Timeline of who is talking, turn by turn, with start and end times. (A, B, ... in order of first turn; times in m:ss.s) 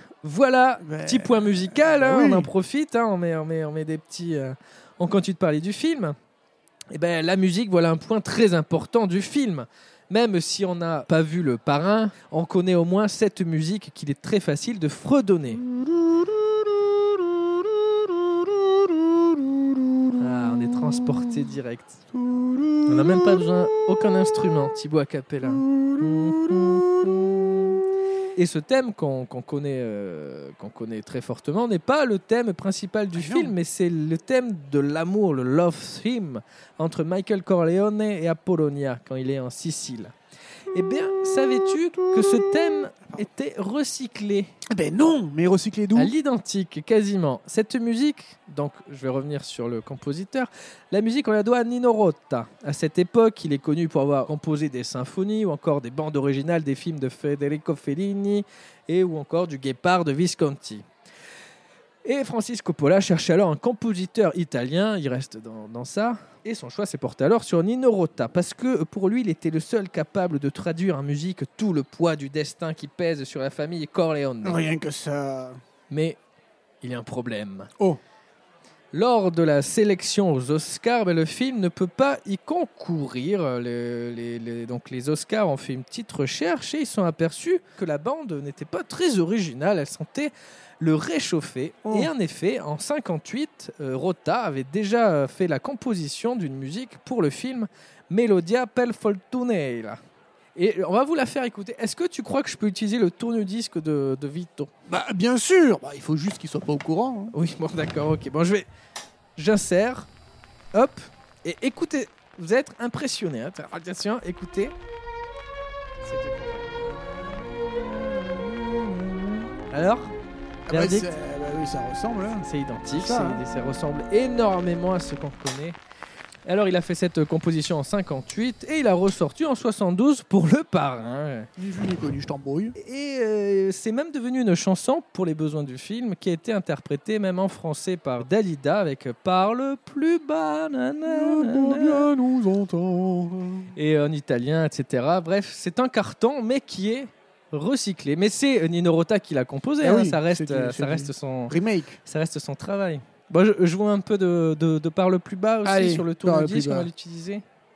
0:00.2-0:06.2 A
0:00.8-0:02.5 B
0:06.9-0:15.6 A
0:15.6-0:21.4 B
0:20.2-0:22.0 A
0:22.1-0:23.5 B
0:22.9-0:26.9 A
0:25.4-0:27.8 B
0:28.3-0:40.1 A
0:33.1-0:33.5 B
0:40.7-0:44.5 A
0:42.2-0:42.6 B
0:44.7-0:46.1 B
0:46.0-1:00.8 A
1:02.0-1:14.6 A
1:14.4-1:15.6 B
1:15.9-1:16.2 A
1:16.8-1:17.7 A
1:18.9-1:40.0 A
1:31.8-1:32.1 B
1:40.6-1:44.7 A
1:44.9-1:47.3 B
1:47.3-1:48.6 A
1:49.4-1:50.1 A
1:50.7-1:54.7 A
1:56.1-1:56.8 B
1:59.0-1:59.4 B
1:59.7-2:00.1 A
2:00.7-2:03.4 B
2:00.7-2:01.1 A
2:02.4-2:05.8 A
2:06.4-2:11.5 A
2:11.6-2:12.7 B
2:12.8-2:22.0 A
2:21.0-2:23.7 B
2:23.7-2:31.5 A
2:29.8-2:32.0 B
2:32.0-2:37.4 A
2:35.6-2:36.9 B